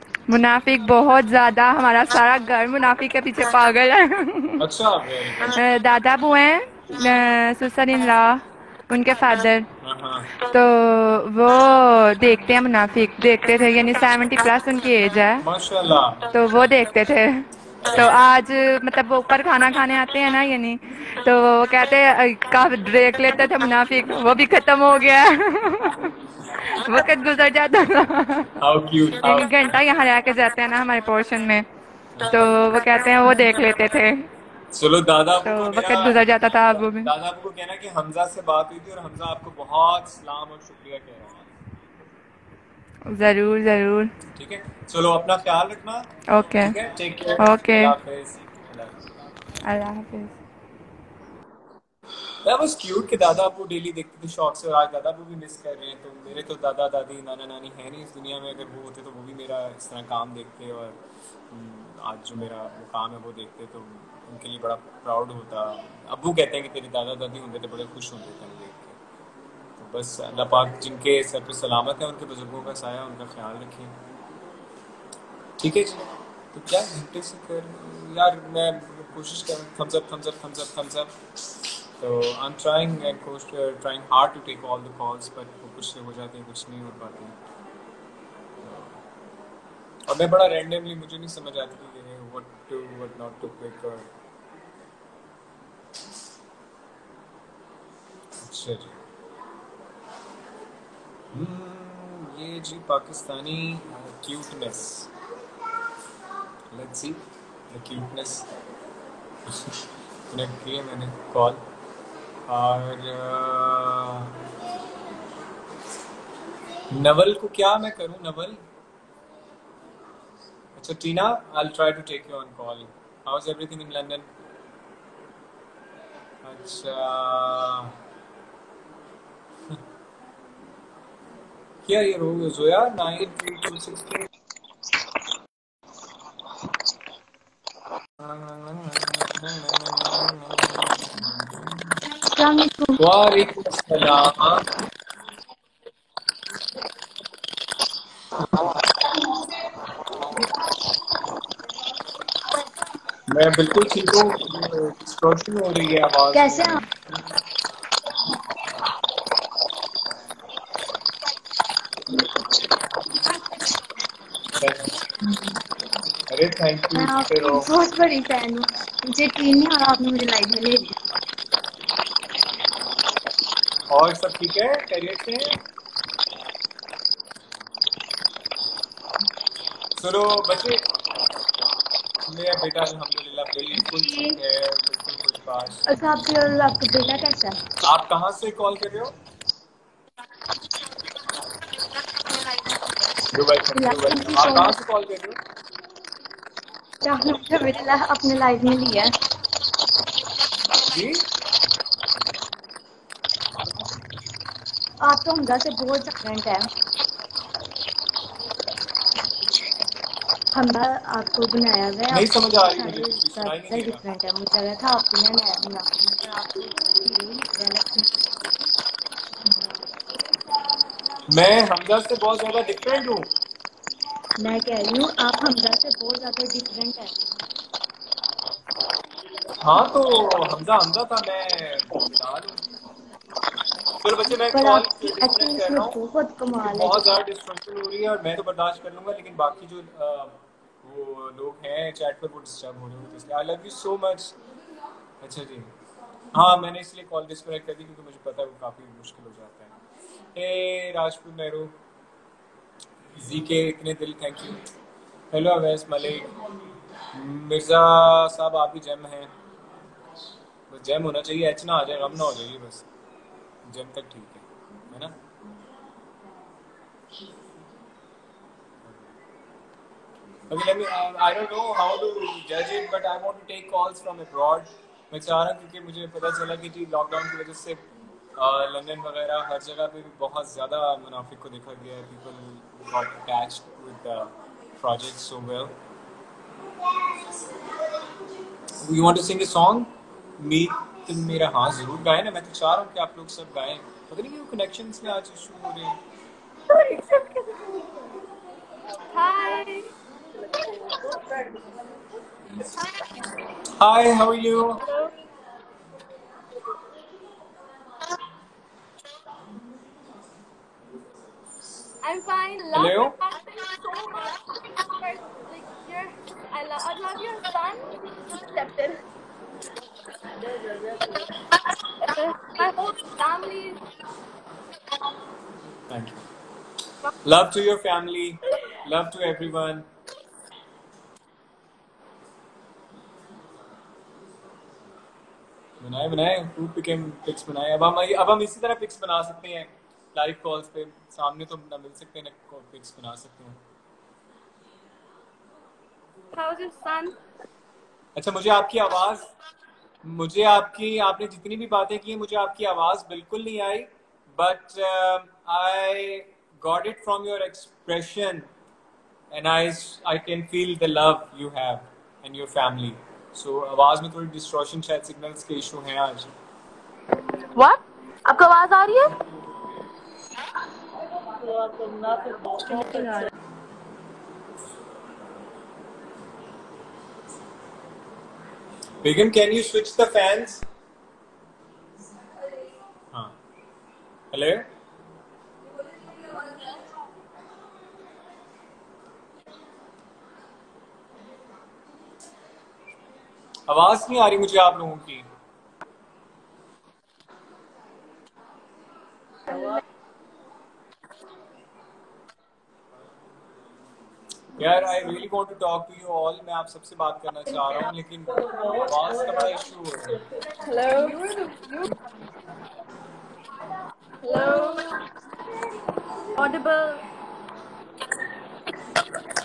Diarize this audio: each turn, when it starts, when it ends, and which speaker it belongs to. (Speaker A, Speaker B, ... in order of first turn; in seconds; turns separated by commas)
Speaker A: 0.3-4.6, Speaker B: 4.6-5.6, Speaker A: 5.5-9.7, Speaker B: 9.8-10.3, Speaker A: 10.4-15.4, Speaker B: 15.4-16.3, Speaker A: 16.3-26.1, Speaker B: 17.9-18.1, Speaker A: 26.6-28.5, Speaker B: 28.6-29.7, Speaker A: 29.2-31.6, Speaker B: 32.1-32.6, Speaker A: 32.3-34.3, Speaker B: 34.7-41.5, Speaker A: 35.4-37.1, Speaker A: 43.1-44.1, Speaker B: 44.3-49.0, Speaker A: 46.3-46.8, Speaker A: 47.4-48.0, Speaker A: 49.6-50.3, Speaker B: 52.4-61.0, Speaker B: 61.5-69.0, Speaker B: 69.8-73.9, Speaker B: 75.6-81.2, Speaker B: 82.0-87.3, Speaker B: 88.6-89.0, Speaker B: 90.1-94.1, Speaker B: 98.4-99.0, Speaker B: 101.3-105.1, Speaker B: 106.7-108.5, Speaker B: 109.5-109.8, Speaker B: 110.3-111.6, Speaker B: 112.5-114.4, Speaker B: 116.9-118.6, Speaker B: 120.8-124.3, Speaker B: 126.4-128.0, Speaker B: 131.9-134.3, Speaker B: 138.2-141.3, Speaker B: 143.0-144.7, Speaker B: 153.3-156.9, Speaker B: 164.5-165.0, Speaker B: 166.3-167.7, Speaker C: 167.3-168.3, Speaker B: 173.9-175.6, Speaker B: 180.0-180.8, Speaker B: 182.3-185.8, Speaker B: 187.8-189.2, Speaker B: 193.3-195.4, Speaker C: 193.9-194.7, Speaker C: 198.1-198.9, Speaker B: 200.8-201.2, Speaker C: 210.7-212.2, Speaker B: 212.1-214.0, Speaker C: 213.7-215.8, Speaker C: 217.4-217.7, Speaker B: 221.3-223.3, Speaker C: 224.5-227.1, Speaker B: 229.6-232.7, Speaker B: 234.0-236.0, Speaker C: 235.4-236.7, Speaker B: 236.6-244.4, Speaker B: 245.2-245.7, Speaker B: 246.3-249.8, Speaker B: 250.3-251.8, Speaker B: 253.2-254.6, Speaker B: 255.3-256.3, Speaker B: 257.1-259.4, Speaker B: 260.7-262.9, Speaker B: 263.6-265.1, Speaker B: 270.5-277.9, Speaker B: 278.4-285.8, Speaker B: 288.8-296.0, Speaker D: 296.8-297.3, Speaker D: 299.1-299.9, Speaker B: 303.8-304.8, Speaker D: 304.9-305.1, Speaker D: 312.0-319.0, Speaker B: 312.7-313.2, Speaker D: 320.6-321.1, Speaker D: 322.0-323.8, Speaker B: 325.9-326.2, Speaker B: 327.2-329.9, Speaker B: 335.8-343.6, Speaker D: 346.3-347.2, Speaker B: 348.2-349.3, Speaker B: 350.0-358.5, Speaker B: 359.3-366.3, Speaker D: 367.6-369.1, Speaker B: 379.0-380.6, Speaker B: 383.1-383.4, Speaker B: 384.3-384.7, Speaker B: 393.7-395.3, Speaker B: 404.6-410.2, Speaker D: 410.7-411.9, Speaker D: 414.2-414.8, Speaker D: 416.4-417.1